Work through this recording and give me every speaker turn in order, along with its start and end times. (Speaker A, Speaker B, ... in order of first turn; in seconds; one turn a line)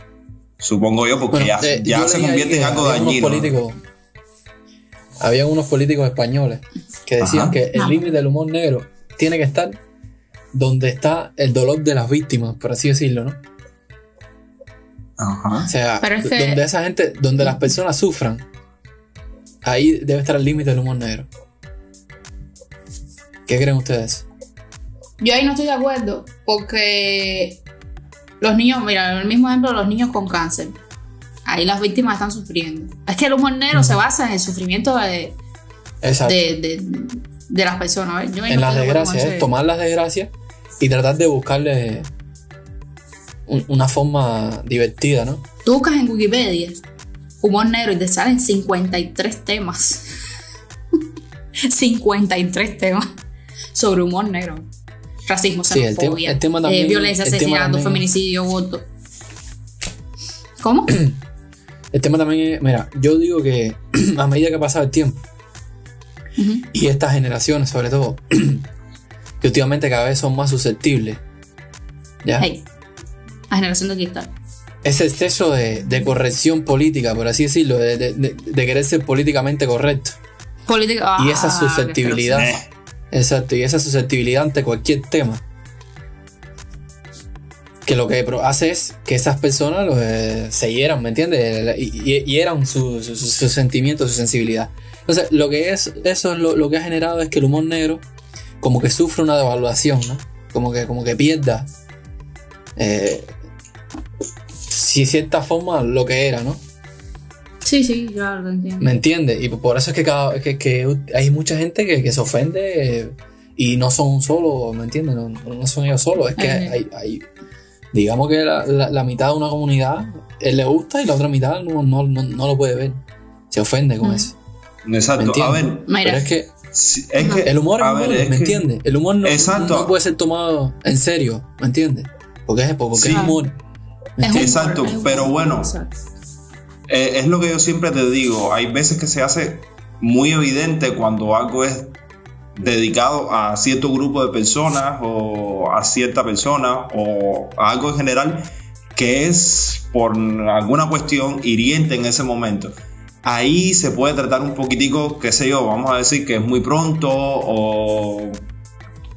Speaker A: 0.6-3.5
Speaker B: 1.3-3.8
Speaker B: 5.2-9.8
Speaker A: 7.2-7.6
Speaker C: 7.8-8.0
Speaker B: 10.5-13.4
Speaker A: 15.2-15.7
Speaker B: 15.7-18.4
Speaker C: 16.0-16.6
Speaker B: 19.6-21.3
Speaker B: 23.5-24.2
Speaker C: 25.2-27.6
Speaker C: 28.4-30.8
Speaker C: 31.5-35.4
Speaker B: 36.0-36.4
Speaker C: 36.2-39.5
Speaker B: 38.5-42.1
Speaker B: 43.5-45.4
Speaker C: 45.6-46.8
Speaker C: 47.4-50.0
Speaker C: 51.7-53.0
Speaker C: 53.7-54.7
Speaker C: 55.3-58.9
Speaker B: 55.7-58.0
Speaker C: 60.6-61.0
Speaker B: 60.9-61.2
Speaker B: 61.9-65.2
Speaker C: 66.4-66.7
Speaker B: 66.7-68.7
Speaker B: 69.4-71.2
Speaker C: 72.4-72.6
Speaker C: 73.5-74.3
Speaker B: 74.8-80.2
Speaker C: 80.7-82.5
Speaker B: 81.2-82.5
Speaker A: 82.3-82.6
Speaker B: 83.1-85.4
Speaker B: 87.8-98.0
Speaker B: 98.6-101.7
Speaker B: 102.8-103.3
Speaker B: 104.7-106.6
Speaker C: 107.6-109.0
Speaker B: 108.8-117.3
Speaker C: 116.4-116.8
Speaker B: 117.9-124.3
Speaker C: 124.0-124.3
Speaker A: 124.8-125.9
Speaker B: 125.2-126.5
Speaker C: 125.9-126.3
Speaker A: 126.7-130.0
Speaker B: 127.5-133.6
Speaker A: 132.9-133.3
Speaker C: 133.1-133.4
Speaker B: 134.2-134.6
Speaker C: 134.2-135.9
Speaker A: 134.3-135.8
Speaker A: 136.9-142.0
Speaker A: 142.6-158.4